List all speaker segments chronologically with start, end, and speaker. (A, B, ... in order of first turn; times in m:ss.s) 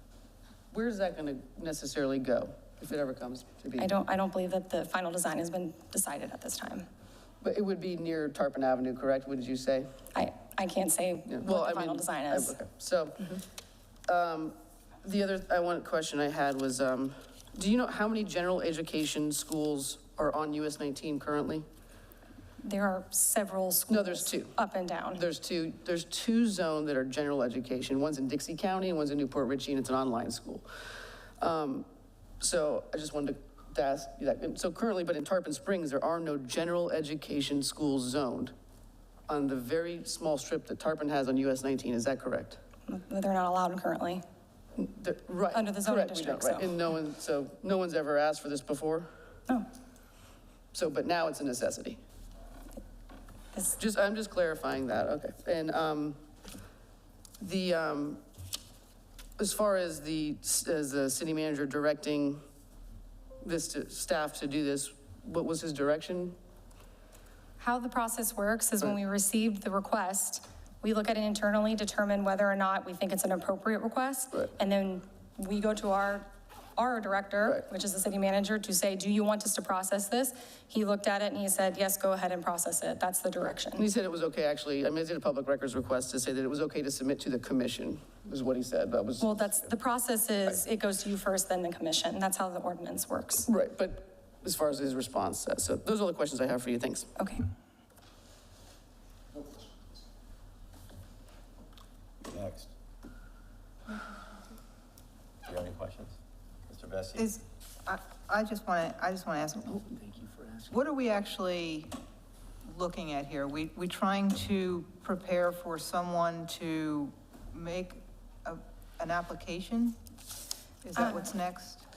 0:00.7-0:03.9 A
0:03.8-0:06.8 B
0:07.4-0:09.9 A
0:10.1-0:12.6 B
0:11.3-0:13.4 A
0:14.1-0:21.6 A
0:22.6-0:25.2 B
0:23.9-0:24.5 A
0:25.1-0:30.6 A
0:31.4-0:31.9 A
0:32.4-0:38.5 A
0:39.3-0:42.6 A
0:42.9-0:44.2 B
0:44.8-0:49.1 A
0:45.5-0:46.7 B
0:50.7-0:52.0 A
0:53.8-0:56.2 A
0:57.4-0:58.2 A
0:59.4-1:02.4 A
1:03.4-1:06.4 A
1:07.6-1:23.8 B
1:23.8-1:29.6 A
1:29.2-1:33.5 B
1:33.5-1:37.1 A
1:37.2-1:37.4 B
1:42.2-1:42.7 C
1:45.4-1:47.3 C
1:47.2-1:49.9 D
1:50.7-1:51.9 D
1:52.6-2:00.0 D
2:00.8-2:01.8 D
2:01.0-2:01.3 B